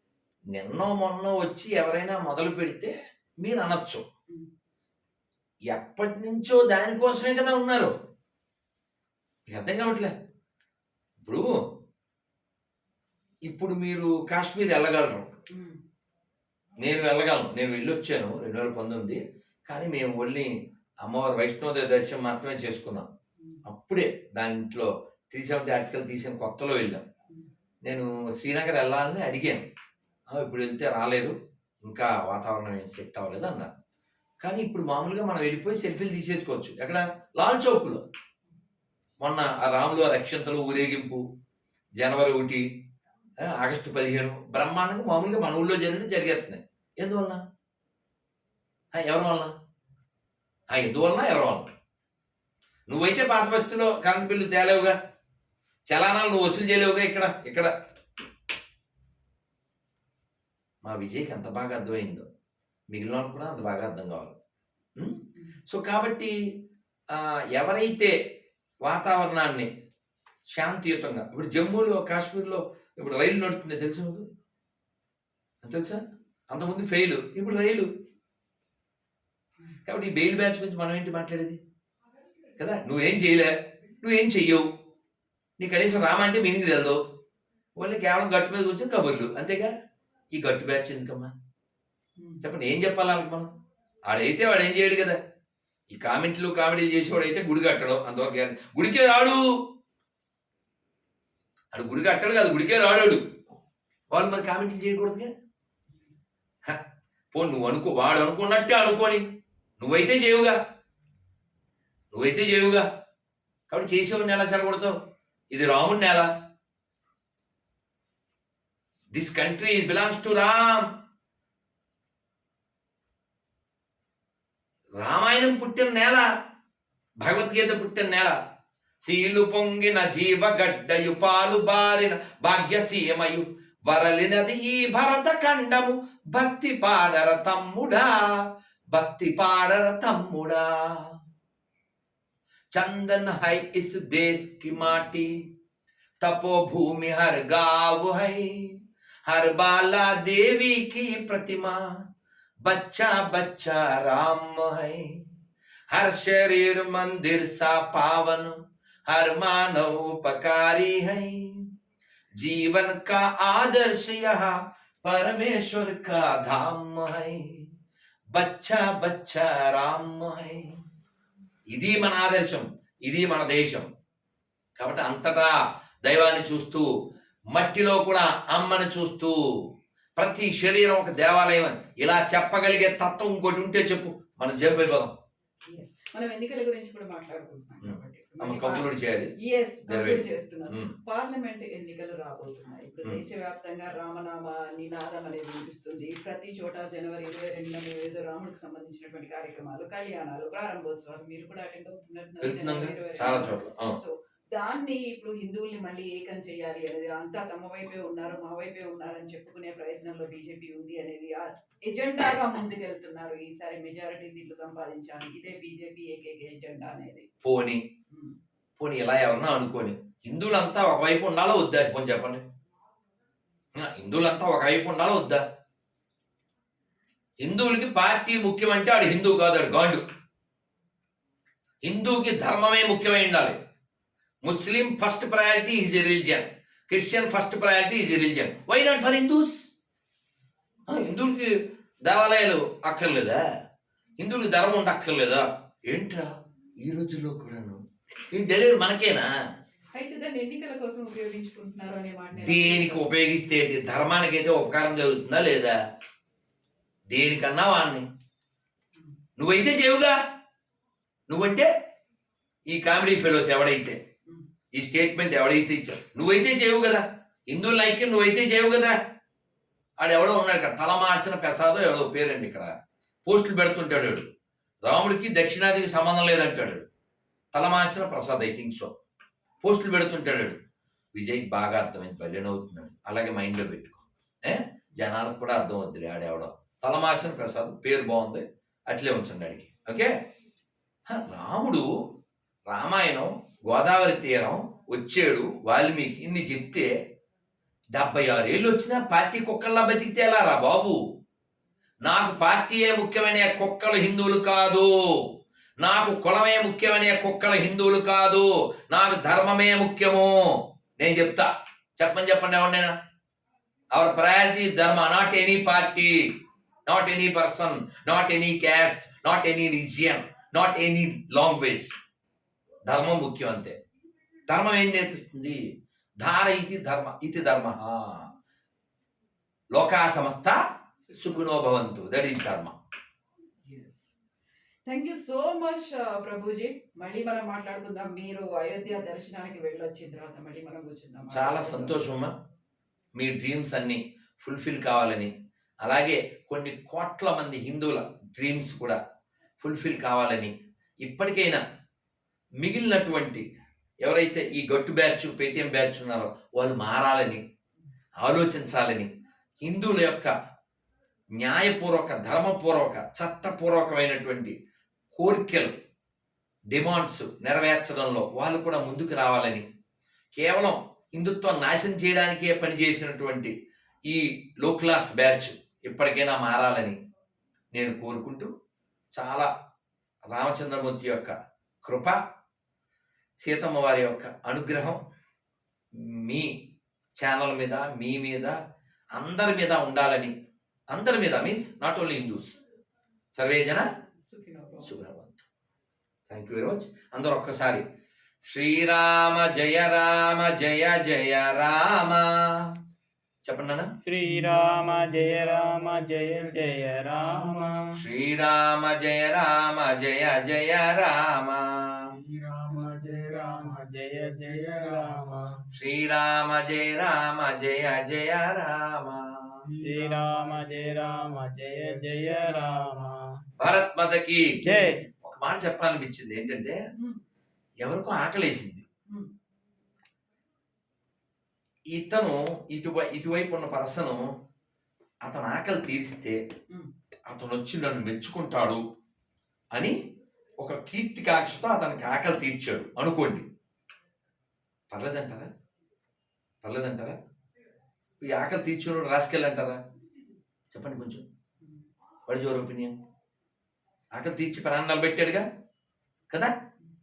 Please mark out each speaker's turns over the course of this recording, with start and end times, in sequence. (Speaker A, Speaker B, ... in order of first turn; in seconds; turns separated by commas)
Speaker A: 0.5-4.0, Speaker A: 5.7-7.9, Speaker A: 9.5-10.1, Speaker A: 11.2-11.5, Speaker A: 13.5-15.3, Speaker B: 15.5-15.8, Speaker A: 16.8-23.1, Speaker A: 23.6-27.0, Speaker A: 27.8-29.6, Speaker A: 30.3-33.7, Speaker A: 34.4-38.0, Speaker A: 39.2-41.2, Speaker A: 42.0-42.6, Speaker A: 43.4-47.4, Speaker A: 48.9-49.5, Speaker A: 50.7-51.7, Speaker A: 52.9-54.9, Speaker A: 55.9-57.7, Speaker A: 60.8-62.2, Speaker A: 62.9-64.3, Speaker A: 65.0-66.3, Speaker A: 67.1-68.2, Speaker A: 68.8-69.7, Speaker A: 70.5-74.2, Speaker A: 75.6-77.9, Speaker A: 79.8-81.6, Speaker A: 82.6-84.7, Speaker A: 85.6-87.0, Speaker A: 87.8-89.7, Speaker A: 90.3-91.3, Speaker B: 92.2-92.4, Speaker A: 92.4-93.5, Speaker A: 94.1-95.2, Speaker A: 95.9-99.4, Speaker A: 101.7-103.3, Speaker A: 104.1-105.3, Speaker A: 107.3-109.2, Speaker A: 109.8-110.6, Speaker A: 112.1-112.8, Speaker A: 113.7-114.9, Speaker A: 115.5-116.3, Speaker A: 119.1-120.8, Speaker A: 125.0-126.2, Speaker A: 127.2-128.3, Speaker A: 129.0-138.2, Speaker A: 138.9-141.1, Speaker A: 142.7-145.3, Speaker A: 146.2-148.6, Speaker A: 149.3-151.8, Speaker A: 152.6-155.2, Speaker A: 155.9-158.6, Speaker A: 159.1-161.6, Speaker A: 162.4-167.7, Speaker A: 168.3-170.8, Speaker A: 171.7-173.9, Speaker A: 174.8-176.9, Speaker A: 177.5-179.4, Speaker A: 180.2-185.1, Speaker B: 185.7-188.9, Speaker A: 187.8-189.3, Speaker B: 189.4-217.3, Speaker A: 189.9-190.9, Speaker A: 202.4-204.0, Speaker A: 217.4-217.8, Speaker A: 218.8-222.4, Speaker A: 223.7-225.4, Speaker A: 227.4-230.0, Speaker A: 231.8-233.6, Speaker A: 234.4-239.7, Speaker A: 240.9-241.5, Speaker A: 242.0-243.4, Speaker A: 244.2-246.3, Speaker A: 246.8-247.8, Speaker A: 248.3-249.3, Speaker B: 249.9-253.1, Speaker A: 252.3-255.8, Speaker A: 257.1-258.1, Speaker A: 259.4-260.2, Speaker A: 261.3-261.7, Speaker A: 262.7-264.0, Speaker A: 264.7-268.9, Speaker A: 270.0-272.7, Speaker A: 273.2-274.3, Speaker A: 274.8-276.9, Speaker A: 277.5-278.9, Speaker A: 279.6-280.6, Speaker A: 281.1-290.1, Speaker A: 291.1-291.9, Speaker A: 292.7-296.9, Speaker A: 297.9-301.0, Speaker A: 302.0-304.9, Speaker A: 305.8-312.9, Speaker A: 313.9-316.2, Speaker A: 316.9-321.9, Speaker A: 322.9-323.8, Speaker A: 324.5-325.7, Speaker A: 326.2-328.3, Speaker A: 329.7-330.6, Speaker B: 331.0-331.6, Speaker A: 331.2-332.7, Speaker B: 333.6-334.1, Speaker B: 334.9-342.1, Speaker A: 341.3-342.3, Speaker A: 343.1-345.3, Speaker A: 345.8-349.0, Speaker A: 349.6-351.6, Speaker A: 352.6-353.4, Speaker A: 354.0-357.4, Speaker A: 358.2-360.3, Speaker A: 361.4-364.5, Speaker A: 365.1-365.7, Speaker A: 366.7-369.6, Speaker A: 370.3-373.5, Speaker A: 374.1-377.0, Speaker A: 377.7-378.5, Speaker A: 379.1-379.5, Speaker A: 380.3-382.2, Speaker A: 383.4-385.0, Speaker A: 385.9-386.5, Speaker A: 387.2-388.6, Speaker A: 389.1-390.3, Speaker A: 390.9-392.5, Speaker A: 393.3-393.9, Speaker B: 394.2-394.9, Speaker A: 394.8-395.4, Speaker A: 396.3-397.8, Speaker A: 398.4-402.7, Speaker A: 403.4-403.9, Speaker C: 404.0-408.0, Speaker B: 404.2-404.6, Speaker A: 407.9-412.1, Speaker C: 412.1-415.6, Speaker A: 415.7-419.6, Speaker C: 419.7-423.3, Speaker A: 423.6-424.6, Speaker C: 424.6-425.0, Speaker A: 425.2-426.8, Speaker B: 426.9-427.2, Speaker A: 427.8-428.8, Speaker A: 431.9-434.2, Speaker A: 435.2-436.4, Speaker A: 437.3-438.8, Speaker A: 440.6-443.4, Speaker A: 444.9-445.5, Speaker A: 446.6-447.1, Speaker A: 448.2-449.8, Speaker A: 450.7-451.2, Speaker A: 452.3-452.9, Speaker A: 454.1-455.4